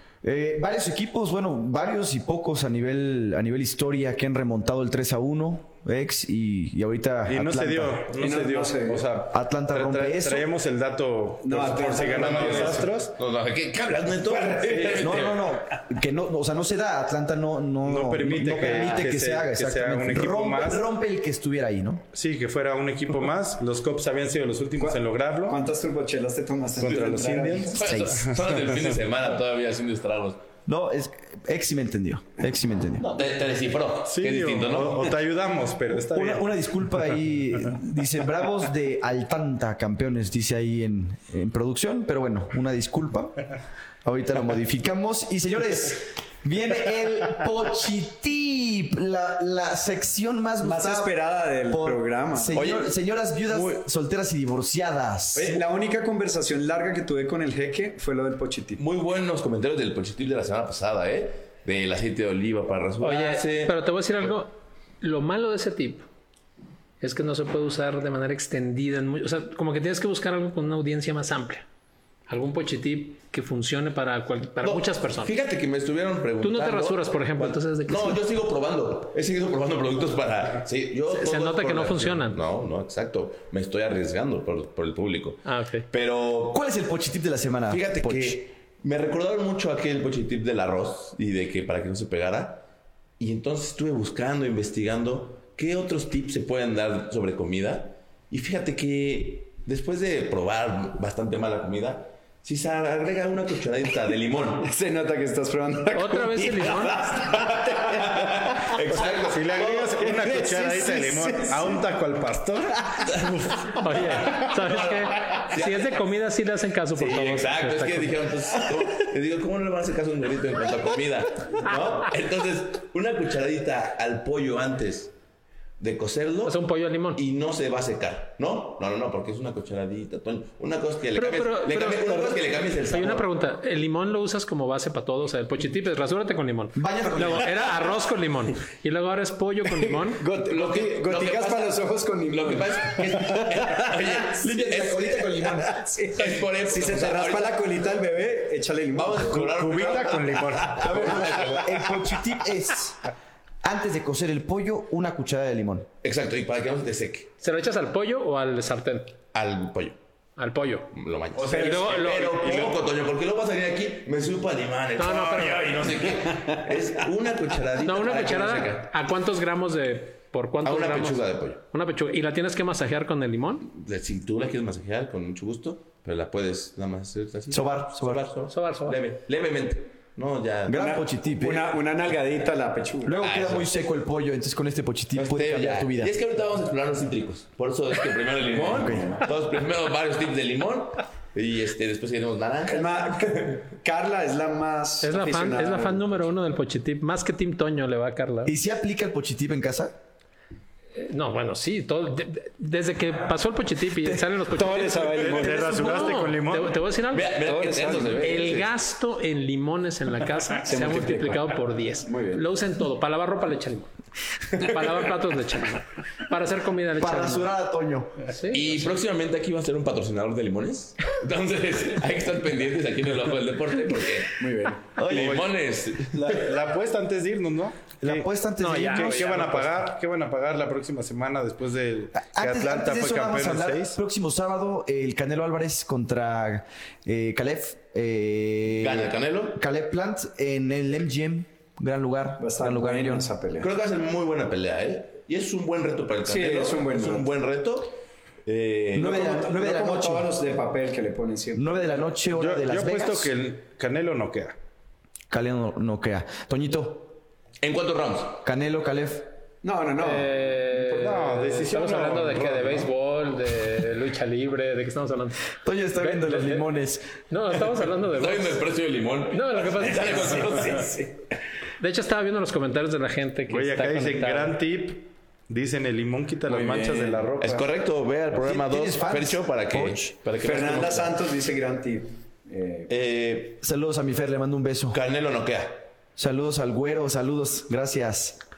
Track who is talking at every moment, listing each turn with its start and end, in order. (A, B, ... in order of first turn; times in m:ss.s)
0:00.2-0:08.1 A
0:07.3-0:13.2 B
0:08.2-0:09.1 C
0:09.3-0:10.5 A
0:11.4-0:12.9 C
0:12.4-0:15.6 D
0:14.4-0:15.1 C
0:15.0-0:22.0 A
0:17.8-0:20.9 B
0:22.1-0:25.6 B
0:24.8-0:27.8 C
0:26.8-0:29.0 B
0:27.6-0:30.4 D
0:27.8-0:28.3 A
0:30.7-0:33.1 A
0:33.0-0:35.2 D
0:34.1-0:36.5 B
0:36.1-0:43.5 A
0:44.0-0:51.1 A
0:50.6-0:52.6 C
0:51.7-0:55.6 A
0:52.5-0:52.9 D
0:53.5-0:53.8 D
0:55.4-0:58.8 C
0:58.8-1:03.8 D
1:03.0-1:06.1 E
1:07.0-1:11.7 E
1:12.3-1:15.3 E
1:14.6-1:26.6 D
1:16.4-1:18.2 E
1:21.1-1:22.4 E
1:25.4-1:25.9 E
1:26.5-1:28.4 A
1:27.7-1:32.7 D
1:33.2-1:44.7 D
1:44.6-1:48.8 C
1:46.0-1:47.1 E
1:47.0-1:50.0 D
1:48.9-1:53.7 B
1:50.0-1:51.8 C
1:53.1-1:56.1 D
1:53.7-1:58.3 E
1:57.0-2:05.1 D
2:05.8-2:06.6 D
2:06.4-2:07.2 E
2:07.2-2:13.3 D
2:11.2-2:20.2 E
2:16.8-2:17.6 A
2:20.0-2:24.0 C
2:20.5-2:21.8 D
2:22.3-2:27.7 D
2:24.3-2:25.8 A
2:25.6-2:29.4 C
2:29.0-2:32.2 D
2:29.3-2:31.2 B
2:30.9-2:33.1 A
2:33.6-2:35.9 A
2:36.0-2:37.3 D
2:37.4-2:39.2 E
2:39.3-2:40.0 D
2:40.4-2:40.9 E
2:40.9-2:48.9 D
2:41.4-2:42.8 B
2:41.5-2:42.4 E
2:45.0-2:45.9 E
2:47.8-2:53.7 E
2:50.6-2:51.6 D
2:53.7-3:00.8 D
2:57.5-2:58.3 A
2:58.5-2:59.0 E
3:00.7-3:01.7 A
3:00.7-3:03.2 C
3:03.0-3:06.1 A
3:03.2-3:03.7 D
3:05.2-3:13.6 D
3:08.8-3:09.3 C
3:08.8-3:09.1 A
3:12.7-3:16.2 C
3:15.0-3:18.5 E
3:18.5-3:19.9 A
3:21.0-3:27.4 E
3:24.4-3:26.0 C
3:25.2-3:26.8 B
3:27.1-3:28.7 D
3:27.4-3:28.4 C
3:28.2-3:33.9 E
3:30.6-3:31.5 C
3:32.1-3:32.4 C
3:34.5-3:37.5 E
3:37.0-3:38.3 A
3:38.3-3:38.9 E
3:38.5-3:46.6 D
3:44.4-3:44.9 C
3:45.0-3:45.5 A
3:45.1-3:54.0 B
3:48.0-3:49.7 A
3:48.6-3:49.6 E
3:52.2-4:03.3 A
3:58.8-3:59.6 D
4:02.4-4:03.7 C
4:03.6-4:09.2 D
4:06.2-4:07.3 C
4:09.0-4:10.3 A
4:09.0-4:11.9 C
4:11.6-4:13.3 A
4:12.4-4:14.6 B
4:15.3-4:17.2 A
4:17.6-4:18.4 D
4:18.4-4:19.3 A
4:19.6-4:21.2 C
4:20.0-4:26.7 E
4:21.0-4:22.9 B
4:25.6-4:27.0 A
4:27.3-4:28.6 E
4:28.1-4:31.0 D
4:29.3-4:30.9 E
4:30.4-4:31.0 C
4:31.8-4:34.6 E
4:33.5-4:37.6 B
4:36.5-4:41.2 D
4:38.4-4:40.1 A
4:40.4-4:42.9 C
4:42.9-4:43.6 D
4:43.6-4:45.0 A
4:44.9-4:45.9 D
4:46.2-4:48.4 A